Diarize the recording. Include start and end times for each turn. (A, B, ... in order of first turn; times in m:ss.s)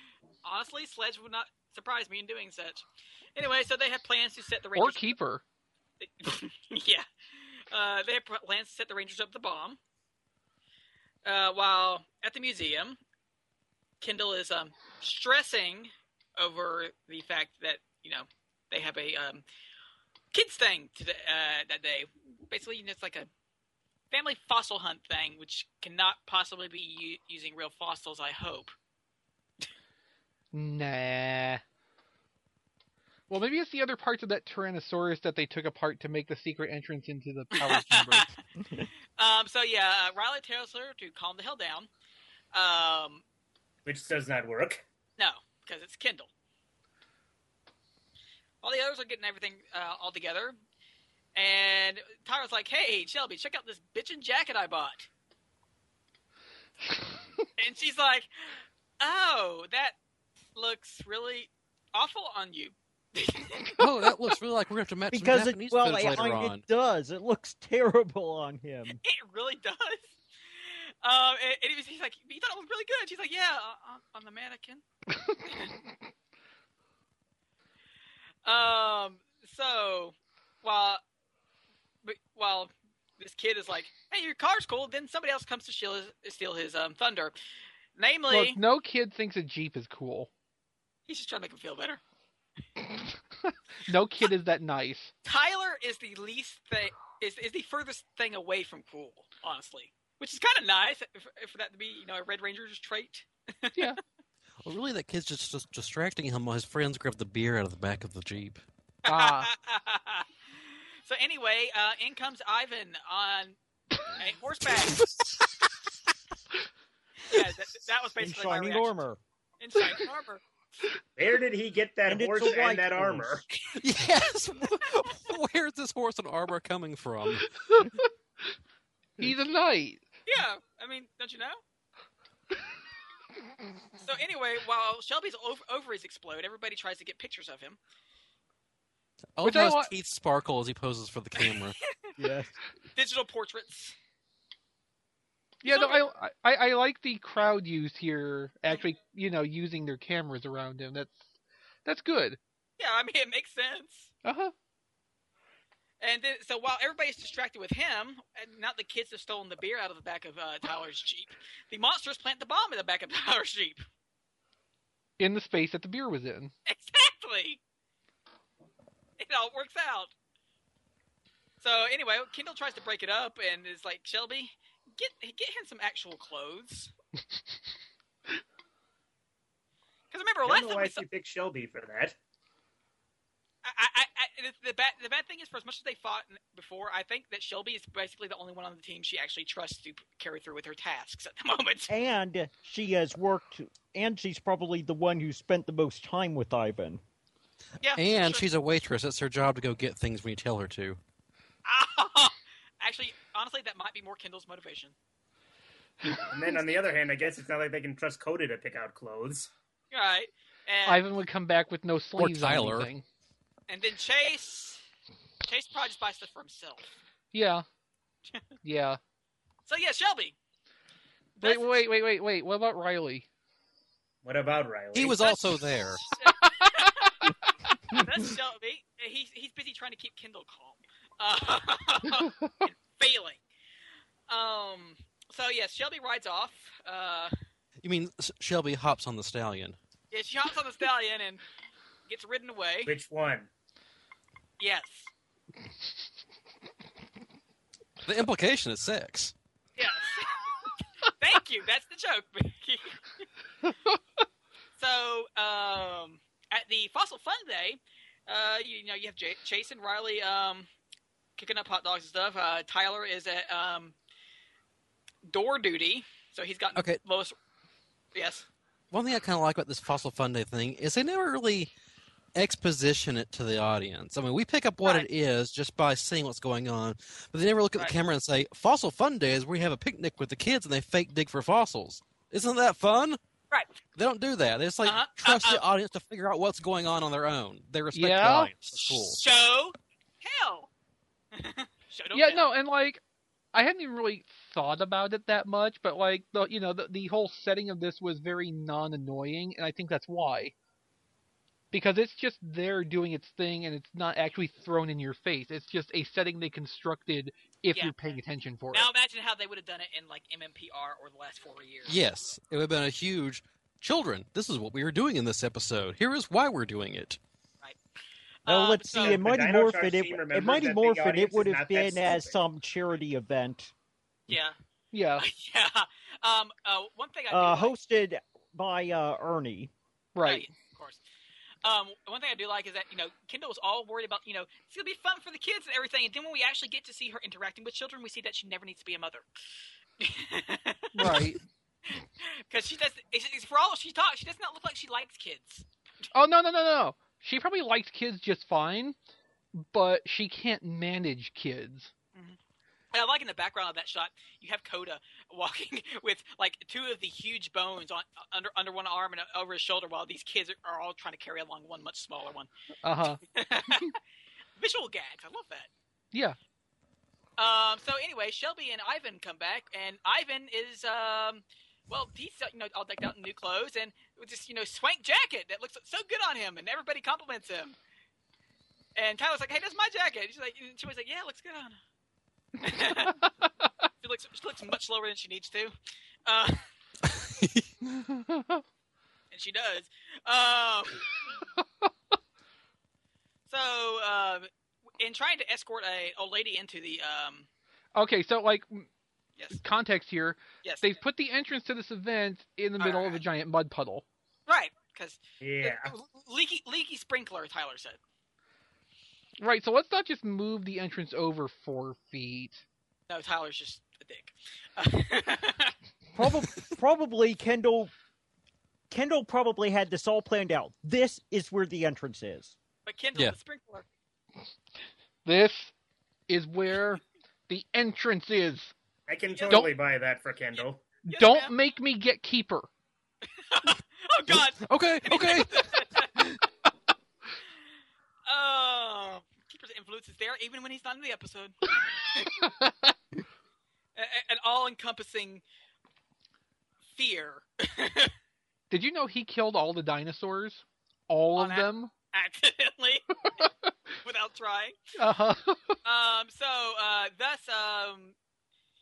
0:00.4-0:02.8 A
0:03.4-0:05.1 A
0:04.8-0:05.4 B
0:06.0-0:09.8 A
0:11.2-0:13.0 A
0:14.0-0:19.4 A
0:20.3-0:23.3 A
0:24.1-0:28.7 A
0:30.5-0:31.6 B
0:33.3-0:38.3 B
0:37.6-0:38.3 A
0:39.2-0:41.9 A
0:42.5-0:43.2 A
0:43.8-0:44.8 C
0:45.2-0:46.3 A
0:48.6-0:50.6 A
0:51.3-0:55.1 A
0:57.6-0:59.9 A
1:00.6-1:03.8 A
1:03.8-1:06.6 D
1:05.1-1:09.0 E
1:08.9-1:14.8 A
1:15.4-1:15.7 A
1:18.4-1:21.0 A
1:22.0-1:27.3 A
1:28.0-1:28.6 A
1:28.3-1:30.3 B
1:31.1-1:32.0 A
1:32.8-1:35.1 B
1:35.2-1:44.0 A
1:44.6-1:48.6 D
1:49.0-1:49.5 B
1:49.0-1:50.3 A
1:51.0-1:53.6 A
1:54.2-1:55.1 A
1:57.2-1:59.0 A
1:58.2-1:59.2 E
1:59.6-2:00.4 A
2:01.2-2:03.4 C
2:02.1-2:03.4 E
2:03.8-2:07.5 D
2:07.6-2:08.1 B
2:09.2-2:10.0 B
2:10.2-2:11.6 A
2:14.0-2:17.8 A
2:19.4-2:21.8 D
2:19.4-2:19.9 B
2:21.4-2:22.1 A
2:22.2-2:22.5 E
2:22.9-2:23.9 A
2:25.6-2:31.2 B
2:25.7-2:26.0 A
2:31.8-2:32.4 B
2:32.8-2:34.1 A
2:34.2-2:34.5 B
2:36.0-2:43.8 A
2:45.2-2:46.5 B
2:46.6-2:47.6 A
2:49.2-2:50.1 A
2:51.6-2:56.9 A
3:00.1-3:01.0 A
3:00.4-3:02.2 C
3:03.6-3:11.9 A
3:11.9-3:17.0 E
3:17.8-3:18.4 A
3:18.0-3:21.0 D
3:21.6-3:24.9 A
3:26.3-3:29.5 C
3:29.9-3:31.0 A
3:30.8-3:33.0 B
3:32.2-3:32.9 D
3:33.7-3:34.8 A
3:35.4-3:36.9 A
3:37.3-3:37.6 B
3:38.6-3:39.0 B
3:39.6-3:40.3 A
3:41.4-3:41.7 A
3:41.4-3:43.2 B
3:44.2-3:45.4 C
3:44.9-3:46.0 D
3:45.0-3:47.3 A
3:46.4-3:47.4 B
3:47.9-3:53.4 A
3:54.3-3:57.3 A
3:57.8-3:59.8 D
4:00.1-4:01.4 A
4:02.1-4:02.9 A
4:02.8-4:03.5 C
4:04.6-4:05.1 A
4:08.0-4:09.3 D
4:09.8-4:13.2 A
4:13.7-4:14.0 B
4:14.8-4:20.7 A
4:21.4-4:23.9 A
4:25.2-4:27.3 A
4:26.7-4:27.0 D
4:28.1-4:28.4 A
4:28.9-4:31.7 D
4:32.3-4:43.2 D
4:43.5-4:43.8 A
4:43.9-4:49.2 D
4:44.8-4:45.6 A
4:47.9-4:48.5 B
4:48.7-4:50.7 A
4:51.3-4:52.5 A
4:52.1-4:53.0 B
4:53.5-5:00.5 B
5:01.7-5:08.9 B
5:08.7-5:12.0 A
5:11.9-5:17.2 D
5:18.4-5:19.2 A
5:18.5-5:23.7 E
5:19.0-5:22.4 C
5:24.3-5:24.6 A
5:24.9-5:25.2 B
5:25.2-5:27.7 A
5:27.3-5:29.7 E
5:30.1-5:30.5 B
5:30.2-5:31.0 A
5:31.6-5:39.2 A
5:40.0-5:41.3 A
5:40.9-5:41.4 B
5:41.9-5:45.6 A
5:46.1-5:49.0 B
5:49.5-5:51.9 B
5:52.9-6:02.5 A
6:02.8-6:03.9 B
6:03.2-6:04.0 A
6:04.6-6:05.7 A
6:07.4-6:17.8 A
6:19.0-6:21.8 A
6:22.6-6:23.2 A
6:24.0-6:25.7 A
6:26.2-6:26.6 A
6:27.0-6:27.7 D
6:27.8-6:28.6 B
6:29.3-6:31.1 A
6:33.5-6:34.5 A
6:35.0-6:37.5 A
6:37.9-6:38.9 B
6:39.5-6:44.0 B
6:42.8-6:43.2 A
6:44.5-6:48.0 A
6:45.4-6:45.9 C
6:49.4-6:52.6 B
6:53.1-6:55.7 A
6:56.1-6:57.9 E
6:58.9-7:02.5 E
7:02.8-7:03.8 A
7:05.2-7:05.7 B
7:06.3-7:08.7 B
7:09.1-7:10.8 C
7:09.3-7:09.7 A
7:11.0-7:12.7 B
7:11.1-7:11.5 A
7:13.3-7:16.2 A
7:14.3-7:15.7 D
7:18.3-7:21.6 A
7:22.1-7:22.4 A
7:22.4-7:22.7 B
7:24.0-7:25.4 A
7:26.9-7:28.1 A
7:28.7-7:31.9 B
7:31.4-7:33.0 A
7:34.0-7:34.8 A
7:35.0-7:35.8 B
7:35.8-7:38.1 A